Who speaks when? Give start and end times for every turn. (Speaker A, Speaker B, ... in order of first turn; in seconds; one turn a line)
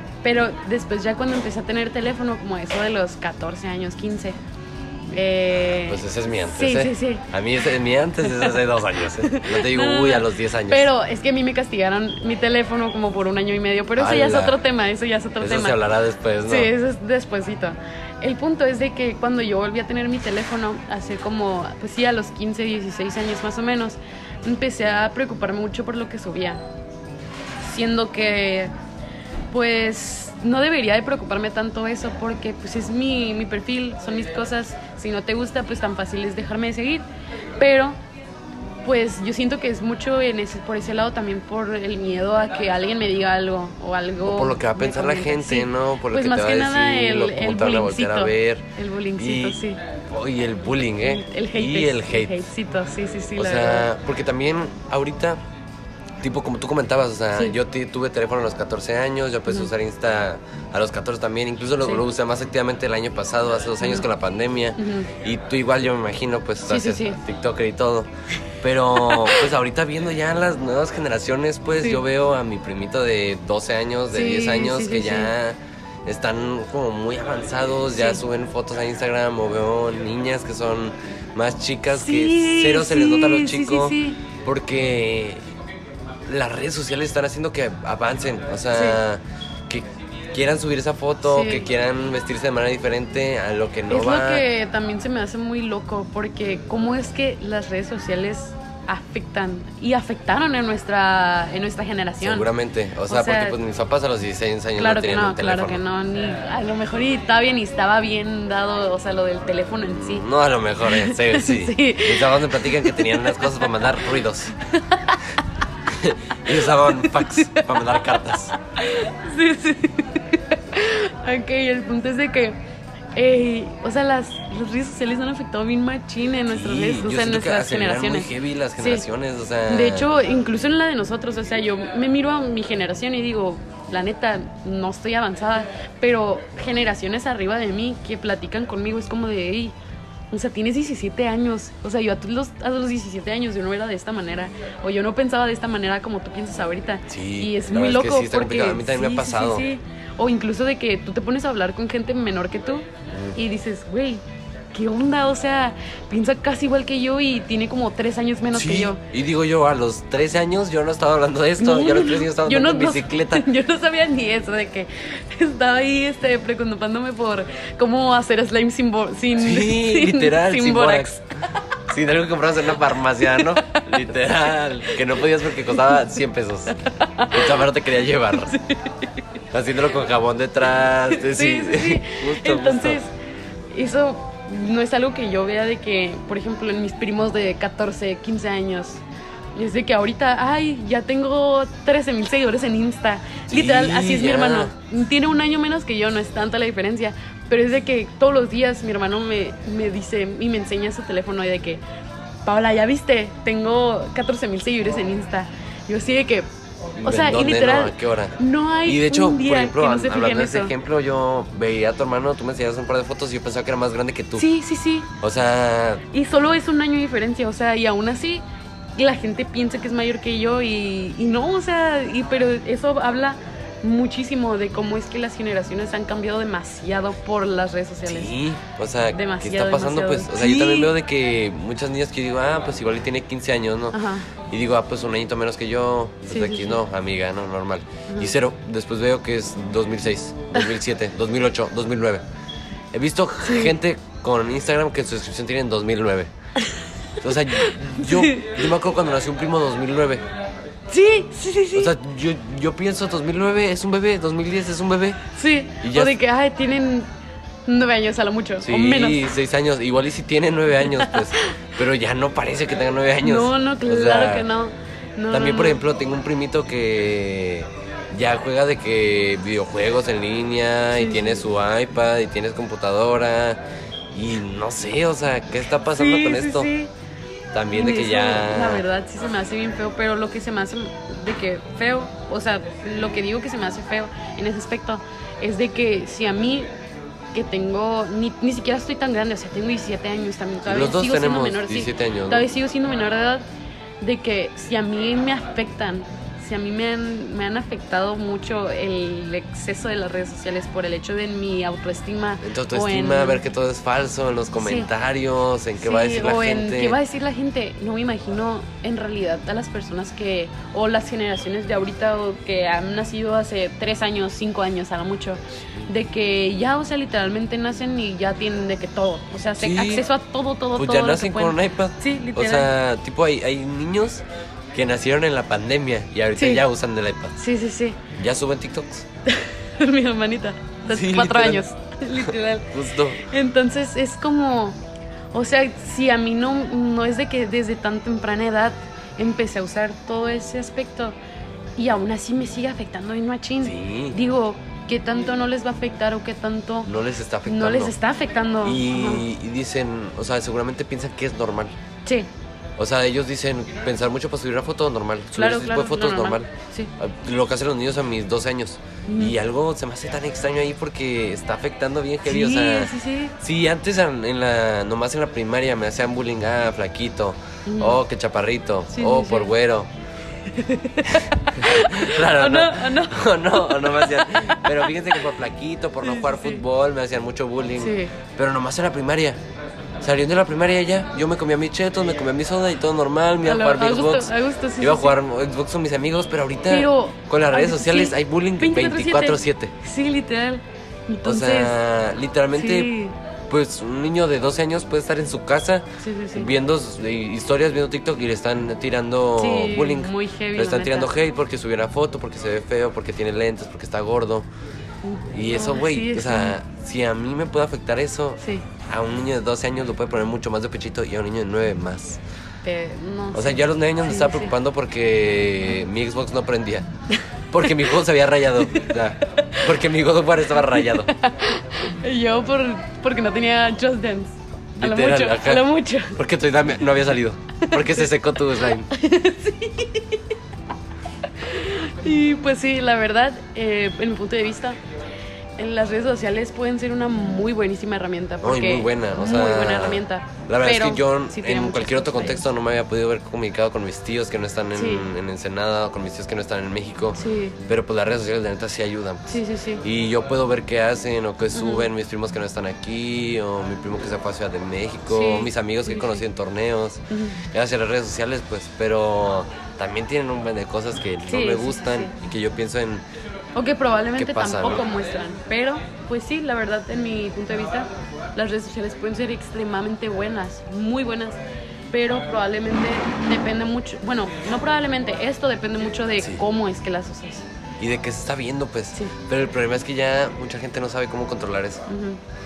Speaker A: 0.2-4.4
Speaker A: 5.1-7.3
Speaker B: 5.8-10.9
Speaker A: 8.2-8.6
Speaker A: 9.2-15.8
Speaker B: 13.9-14.6
Speaker B: 15.4-16.7
Speaker A: 16.4-26.6
Speaker A: 27.6-28.7
Speaker A: 29.5-37.0
Speaker A: 37.6-38.0
Speaker A: 38.8-49.8
Speaker B: 44.2-48.6
Speaker B: 49.2-49.6
Speaker B: 50.1-52.4
Speaker A: 51.0-53.9
Speaker B: 53.4-55.4
Speaker B: 56.2-68.1
Speaker A: 63.8-64.0
Speaker A: 64.8-65.1
Speaker A: 66.7-67.2
Speaker B: 68.6-85.4
Speaker A: 69.0-69.4
Speaker A: 74.1-75.3
Speaker A: 77.9-78.2
Speaker A: 81.9-84.2
Speaker B: 86.3-94.4
Speaker A: 88.7-89.0
Speaker A: 91.2-91.7
Speaker A: 93.9-102.5
Speaker B: 102.2-105.8
Speaker A: 103.1-103.6
Speaker A: 104.8-110.2
Speaker B: 109.9-114.5
Speaker A: 110.8-113.8
Speaker A: 114.6-115.2
Speaker B: 115.9-118.5
Speaker A: 116.5-118.2
Speaker A: 118.7-122.6
Speaker A: 123.1-129.1
Speaker B: 126.5-130.1
Speaker A: 129.7-139.7
Speaker A: 140.3-154.2
Speaker B: 147.1-149.7
Speaker A: 154.7-159.0
Speaker B: 158.5-163.4
Speaker A: 161.6-171.2
Speaker B: 169.4-171.1
Speaker B: 171.9-176.8
Speaker A: 173.3-174.0
Speaker A: 174.8-175.9
Speaker A: 176.7-177.6
Speaker B: 177.3-178.6
Speaker A: 178.5-179.1
Speaker B: 179.5-183.0
Speaker A: 181.1-183.1
Speaker A: 183.7-189.0
Speaker A: 189.5-201.8
Speaker B: 193.5-194.7
Speaker A: 202.4-206.5
Speaker B: 207.0-214.4
Speaker A: 207.0-210.7
Speaker A: 214.3-215.1
Speaker B: 215.2-216.0
Speaker A: 216.1-218.4
Speaker A: 218.9-228.3
Speaker B: 228.1-234.0
Speaker A: 229.1-230.9
Speaker A: 233.9-234.3
Speaker B: 234.5-242.2
Speaker A: 236.3-236.8
Speaker A: 238.1-238.3
Speaker B: 242.9-246.3
Speaker A: 243.4-243.8
Speaker B: 247.2-250.2
Speaker A: 247.6-248.6
Speaker A: 250.9-251.9
Speaker B: 251.7-255.2
Speaker A: 255.3-257.1
Speaker B: 255.8-256.2
Speaker A: 257.6-259.2
Speaker B: 258.6-264.5
Speaker A: 260.8-261.5
Speaker A: 263.2-265.8
Speaker B: 265.3-273.6
Speaker A: 270.9-271.4
Speaker B: 274.1-276.7
Speaker A: 275.8-276.9
Speaker B: 277.5-278.8
Speaker A: 277.7-286.7
Speaker A: 287.3-293.4
Speaker B: 290.6-292.4
Speaker A: 294.0-303.4
Speaker B: 302.4-307.0
Speaker A: 304.6-304.9
Speaker A: 305.8-322.7
Speaker B: 319.6-320.1
Speaker B: 320.7-327.4
Speaker A: 326.4-326.6
Speaker A: 327.4-328.0
Speaker B: 328.1-329.1
Speaker A: 329.2-334.8
Speaker B: 330.9-331.6
Speaker B: 332.2-333.2
Speaker A: 335.3-341.2
Speaker A: 341.8-346.9
Speaker B: 343.6-344.2
Speaker B: 346.9-347.9
Speaker A: 347.4-349.2
Speaker B: 348.6-351.7
Speaker B: 352.8-369.9
Speaker A: 355.3-356.9
Speaker A: 359.1-359.3
Speaker A: 362.2-363.3
Speaker A: 367.6-368.0
Speaker A: 368.9-369.5
Speaker A: 370.5-375.2
Speaker B: 371.1-379.4
Speaker A: 376.0-376.6
Speaker A: 377.8-378.1
Speaker B: 380.0-389.7
Speaker A: 383.4-385.1
Speaker A: 386.7-391.7
Speaker B: 391.2-392.9
Speaker A: 392.5-393.1
Speaker B: 393.5-404.5
Speaker A: 396.0-396.5
Speaker A: 399.4-401.1
Speaker A: 405.0-406.6
Speaker B: 405.3-412.2
Speaker A: 412.6-414.5
Speaker B: 413.3-416.9
Speaker B: 417.5-421.1
Speaker A: 418.6-419.7
Speaker A: 420.7-426.2
Speaker B: 424.8-428.9
Speaker A: 427.6-428.1
Speaker A: 428.9-430.2
Speaker A: 431.4-434.8
Speaker A: 435.6-442.4
Speaker B: 438.4-457.0
Speaker A: 444.7-445.1
Speaker A: 447.2-447.6
Speaker A: 449.3-449.8
Speaker A: 451.5-451.9
Speaker A: 455.1-456.2
Speaker A: 457.1-457.4
Speaker B: 457.5-463.0
Speaker A: 461.2-462.1
Speaker A: 463.5-471.4
Speaker B: 464.2-464.9
Speaker A: 471.9-477.5
Speaker B: 477.8-481.8
Speaker A: 481.9-482.2